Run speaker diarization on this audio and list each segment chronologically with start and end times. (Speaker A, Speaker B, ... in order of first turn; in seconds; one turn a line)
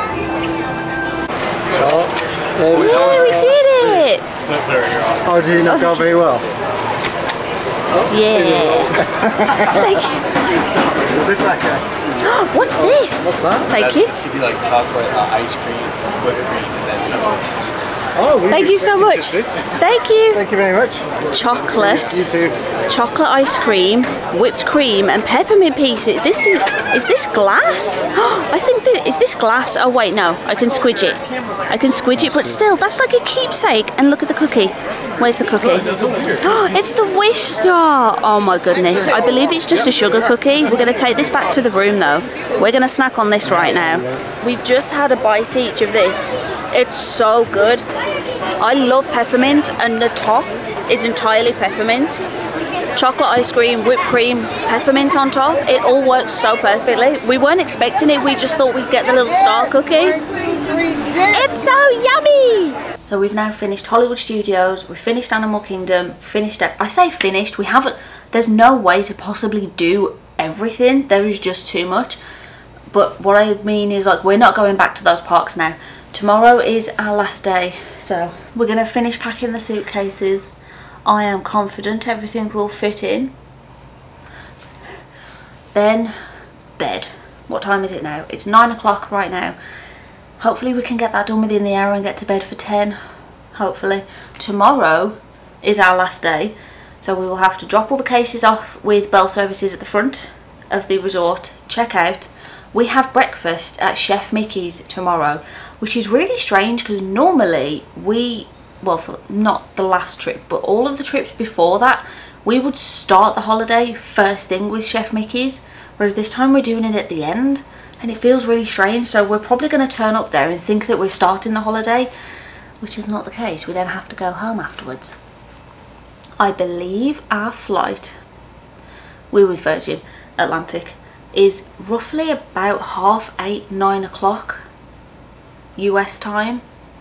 Speaker A: 1.8-3.4
Speaker B: 1.8-2.1
Speaker B: 2.6-3.9
Speaker C: 2.7-4.2
Speaker B: 4.5-6.4
Speaker A: 5.2-6.4
Speaker C: 5.7-6.1
Speaker C: 8.1-9.0
Speaker A: 8.3-9.8
Speaker C: 9.7-10.2
Speaker A: 10.7-11.8
Speaker C: 12.2-14.1
Speaker A: 13.0-13.7
Speaker B: 13.7-17.7
Speaker A: 18.2-19.7
Speaker C: 18.5-20.4
Speaker A: 20.3-22.6
Speaker C: 21.3-22.3
Speaker C: 22.9-47.9
Speaker A: 43.4-44.2
Speaker C: 48.6-52.2
Speaker C: 53.0-60.2
Speaker C: 61.3-72.2
Speaker C: 72.9-80.5
Speaker C: 81.0-83.3
Speaker C: 85.7-86.1
Speaker C: 86.8-89.6
Speaker C: 90.4-93.0
Speaker C: 93.5-122.1
Speaker C: 122.8-125.2
Speaker C: 126.4-128.2
Speaker C: 129.3-134.6
Speaker C: 135.8-136.6